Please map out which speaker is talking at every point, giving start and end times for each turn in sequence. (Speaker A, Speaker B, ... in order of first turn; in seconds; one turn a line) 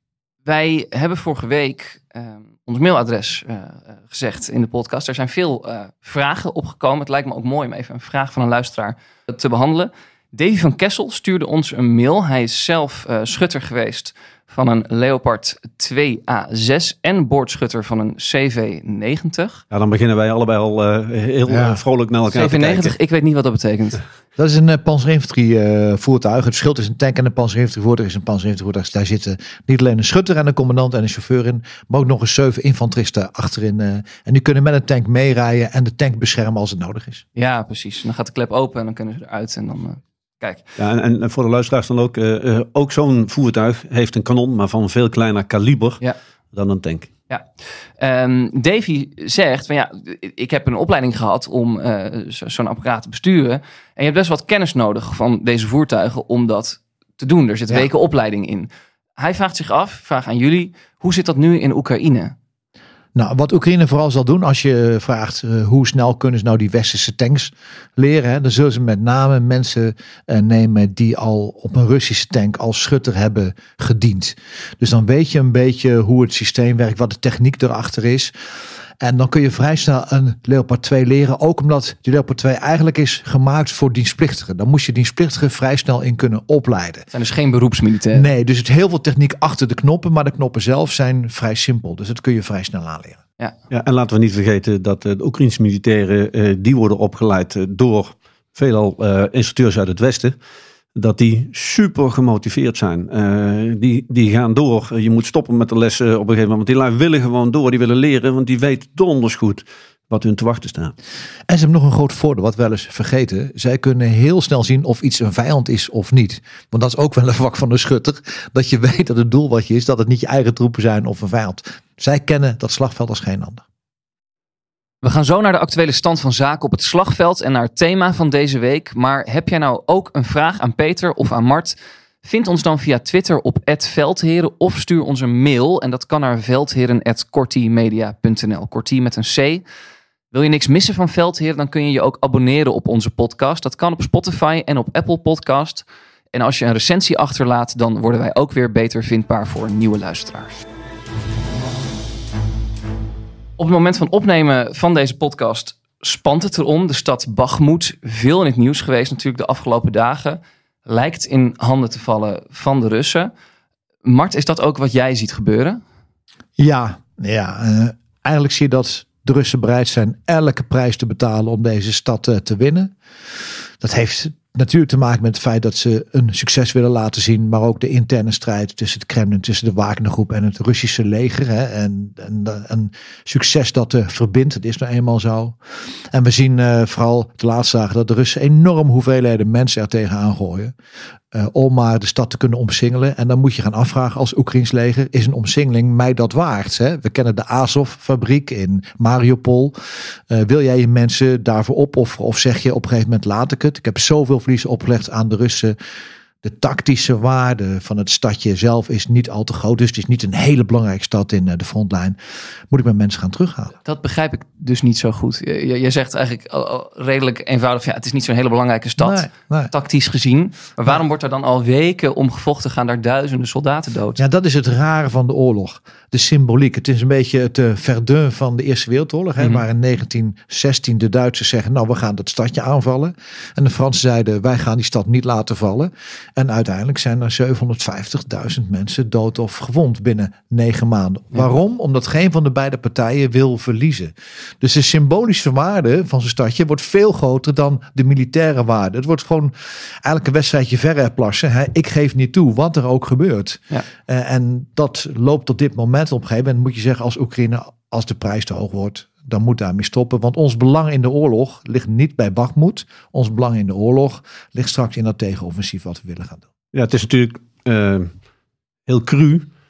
Speaker A: 0.5-19.6
Speaker B: 19.7-22.9
Speaker C: 21.5-21.8
Speaker A: 22.3-24.0
Speaker C: 24.4-37.2
Speaker A: 37.4-40.6
Speaker B: 40.8-46.0
Speaker B: 46.5-47.1
Speaker A: 48.0-62.4
Speaker C: 63.1-78.3
Speaker C: 79.0-87.1
Speaker A: 87.1-88.3
Speaker C: 88.1-93.2
Speaker B: 93.7-100.3
Speaker B: 101.0-111.0
Speaker C: 111.5-123.6
Speaker A: 125.0-139.6
Speaker A: 140.3-150.6
Speaker A: 153.6-163.3
Speaker A: 164.1-165.8
Speaker C: 166.6-172.9
Speaker C: 173.8-185.6
Speaker C: 186.1-190.7
Speaker C: 191.3-199.8
Speaker C: 200.3-205.8
Speaker C: 206.4-212.2
Speaker C: 212.7-213.7
Speaker A: 213.8-224.2
Speaker C: 219.0-219.7
Speaker C: 224.2-266.5
Speaker B: 266.7-268.1
Speaker B: 268.9-269.5